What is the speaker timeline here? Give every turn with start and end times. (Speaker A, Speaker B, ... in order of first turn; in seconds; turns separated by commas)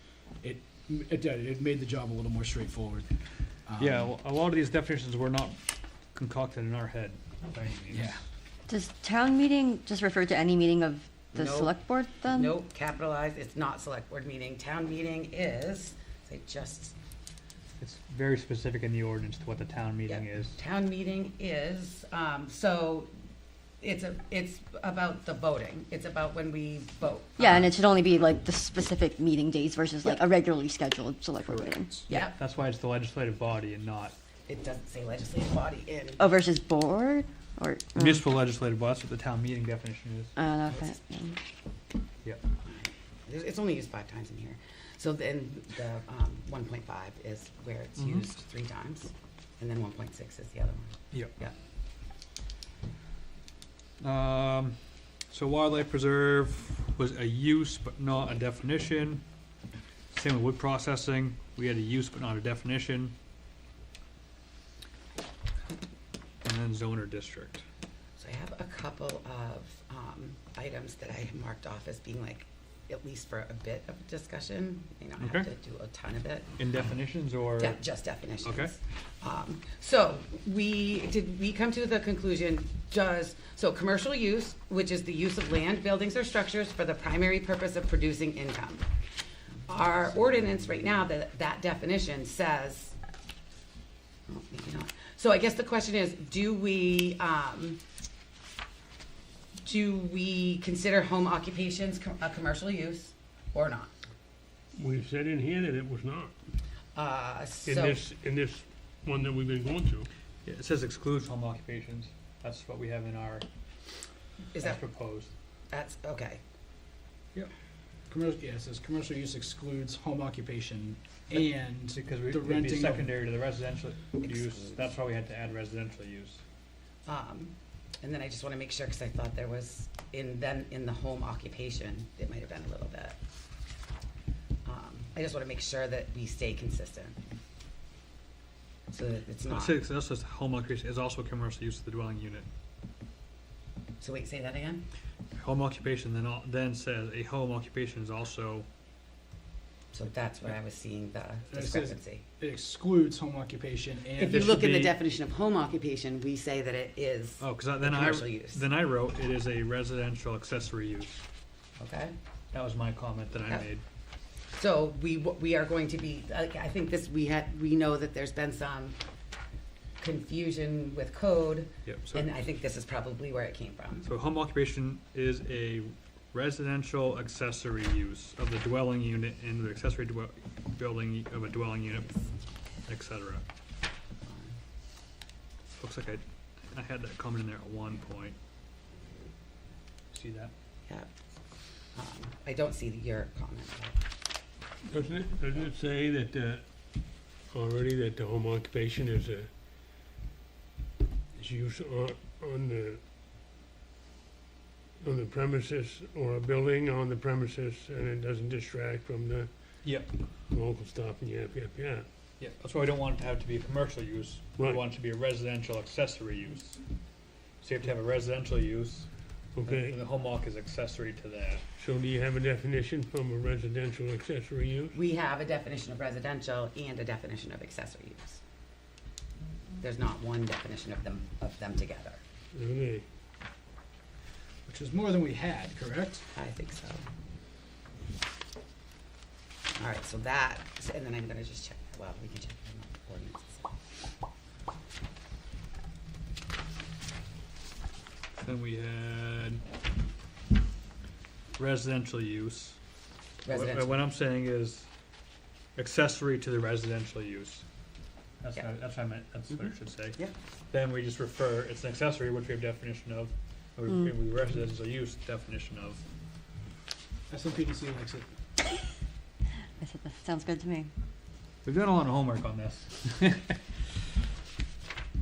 Speaker A: 0.4-3.1, Speaker A: 3.6-4.1, Speaker B: 3.8-5.6, Speaker B: 6.1-8.2, Speaker A: 7.9-8.2, Speaker C: 8.7-12.5, Speaker D: 11.3-16.9, Speaker B: 17.8-20.6, Speaker D: 20.1-23.1, Speaker D: 23.8-27.8, Speaker C: 27.4-32.3, Speaker B: 31.4-34.1, Speaker D: 32.1-32.4, Speaker D: 34.5-36.3, Speaker C: 36.2-38.2, Speaker B: 37.9-40.3, Speaker C: 40.4-41.4, Speaker D: 40.7-41.0, Speaker D: 42.6-51.5, Speaker B: 48.0-48.2, Speaker B: 51.1-51.4, Speaker B: 54.0-54.8, Speaker B: 55.3-59.2, Speaker B: 60.1-63.1, Speaker B: 66.4-67.6, Speaker D: 68.2-76.5, Speaker B: 75.2-75.5, Speaker B: 76.6-77.8, Speaker D: 77.6-88.9, Speaker B: 78.4-78.7, Speaker D: 89.7-93.0, Speaker D: 94.3-97.8, Speaker D: 99.6-103.9, Speaker E: 104.7-106.3, Speaker D: 106.9-108.0, Speaker E: 107.7-110.1, Speaker B: 110.4-113.4, Speaker D: 114.5-114.8, Speaker B: 114.6-115.3, Speaker D: 115.7-116.4, Speaker A: 118.1-123.2, Speaker B: 121.9-126.4, Speaker D: 124.2-124.6, Speaker D: 127.0-133.2, Speaker D: 134.6-137.2, Speaker D: 138.9-139.8, Speaker B: 139.5-142.4, Speaker D: 144.0-144.8, Speaker B: 145.3-148.7, Speaker D: 149.9-152.2, Speaker A: 151.5-154.9, Speaker D: 154.2-158.7, Speaker B: 154.6-154.9, Speaker B: 157.4-161.1, Speaker D: 161.8-162.2, Speaker B: 162.5-163.8, Speaker D: 164.5-169.0, Speaker D: 170.0-174.1, Speaker B: 171.8-172.3, Speaker B: 174.0-182.1, Speaker B: 182.9-183.4, Speaker D: 184.2-184.6, Speaker B: 185.8-188.3, Speaker B: 190.1-190.5, Speaker D: 191.9-194.0, Speaker E: 194.9-196.6, Speaker E: 197.5-199.5, Speaker E: 201.3-203.0, Speaker E: 205.0-209.5, Speaker B: 209.8-210.1, Speaker E: 210.5-212.1, Speaker B: 212.4-216.8, Speaker E: 214.6-214.8, Speaker B: 217.6-219.1, Speaker E: 219.6-220.0, Speaker B: 219.6-221.6, Speaker E: 221.8-224.9, Speaker D: 224.9-228.4, Speaker D: 229.8-232.2, Speaker E: 232.5-233.0, Speaker A: 234.7-236.2, Speaker D: 236.3-237.0, Speaker D: 239.8-243.6, Speaker B: 248.3-249.6, Speaker B: 251.6-252.8, Speaker D: 253.4-254.0, Speaker B: 253.5-254.9, Speaker B: 255.8-257.6, Speaker B: 258.4-266.0, Speaker A: 267.3-268.3, Speaker C: 269.8-270.9, Speaker B: 271.6-273.6